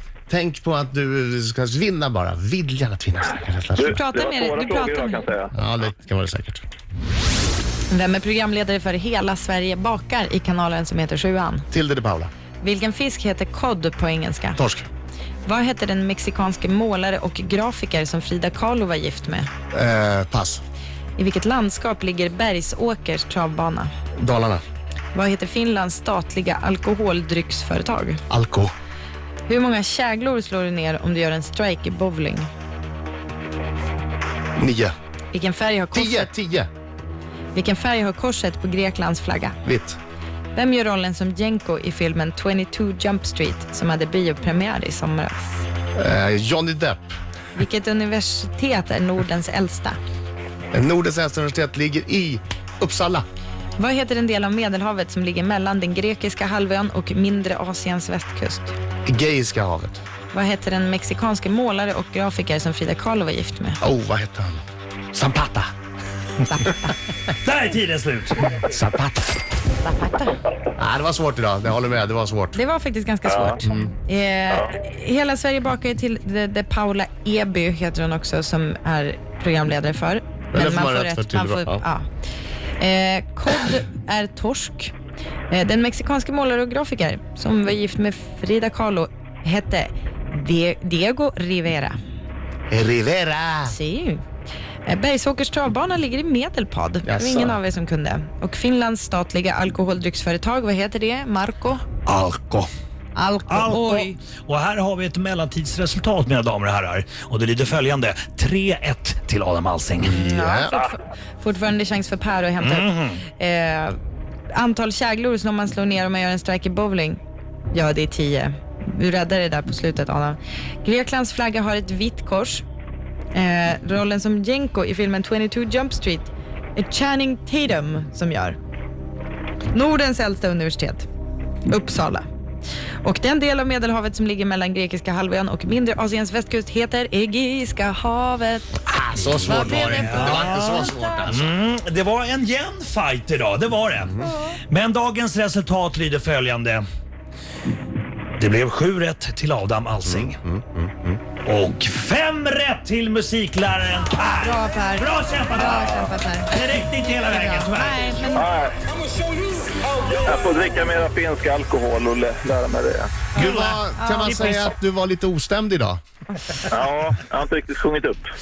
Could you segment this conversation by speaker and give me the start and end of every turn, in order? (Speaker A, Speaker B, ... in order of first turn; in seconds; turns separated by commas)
Speaker A: 0.3-4.0, Speaker B: 3.8-5.5, Speaker C: 3.9-5.3, Speaker A: 5.5-6.6, Speaker C: 7.9-11.7, Speaker A: 11.7-12.3, Speaker C: 12.6-14.6, Speaker A: 14.6-14.8, Speaker C: 15.4-19.5, Speaker A: 19.7-20.6, Speaker C: 21.2-23.9, Speaker A: 24.2-24.6, Speaker C: 25.1-28.2, Speaker A: 28.3-28.7, Speaker C: 29.4-32.5, Speaker A: 34.6-34.9, Speaker C: 35.3-36.3, Speaker A: 35.9-36.7, Speaker C: 37.5-39.6, Speaker A: 39.6-40.0, Speaker C: 40.5-45.6, Speaker A: 46.0-47.1, Speaker C: 47.5-50.0, Speaker A: 50.7-53.2, Speaker C: 53.8-58.7, Speaker A: 59.0-60.0, Speaker C: 60.3-63.8, Speaker A: 63.8-64.6, Speaker A: 65.1-65.6, Speaker D: 65.3-65.6, Speaker C: 66.5-66.8, Speaker D: 67.4-68.4, Speaker A: 68.6-69.3, Speaker C: 69.8-70.3, Speaker A: 70.8-72.6, Speaker C: 72.5-82.0, Speaker B: 73.2-73.5, Speaker A: 73.6-73.9, Speaker A: 80.5-81.8, Speaker C: 82.8-84.9, Speaker C: 85.5-91.9, Speaker A: 92.7-93.8, Speaker C: 93.7-94.2, Speaker C: 94.8-101.8, Speaker A: 97.0-97.6, Speaker D: 102.0-102.7, Speaker C: 103.1-104.2, Speaker D: 103.5-110.2, Speaker C: 110.0-114.0, Speaker A: 110.0-110.7, Speaker D: 112.6-113.2, Speaker C: 114.5-117.2, Speaker C: 117.7-122.6, Speaker C: 123.3-128.6, Speaker C: 129.7-131.0, Speaker C: 131.6-132.2, Speaker C: 133.0-141.0, Speaker A: 138.9-141.5, Speaker D: 139.2-146.8, Speaker D: 148.4-150.4, Speaker A: 150.0-151.2, Speaker D: 151.4-158.3, Speaker C: 154.4-156.5, Speaker C: 157.2-158.5, Speaker B: 158.3-158.8, Speaker B: 160.1-163.3, Speaker A: 163.3-166.0, Speaker C: 163.3-164.7, Speaker D: 163.4-164.6, Speaker B: 166.7-168.3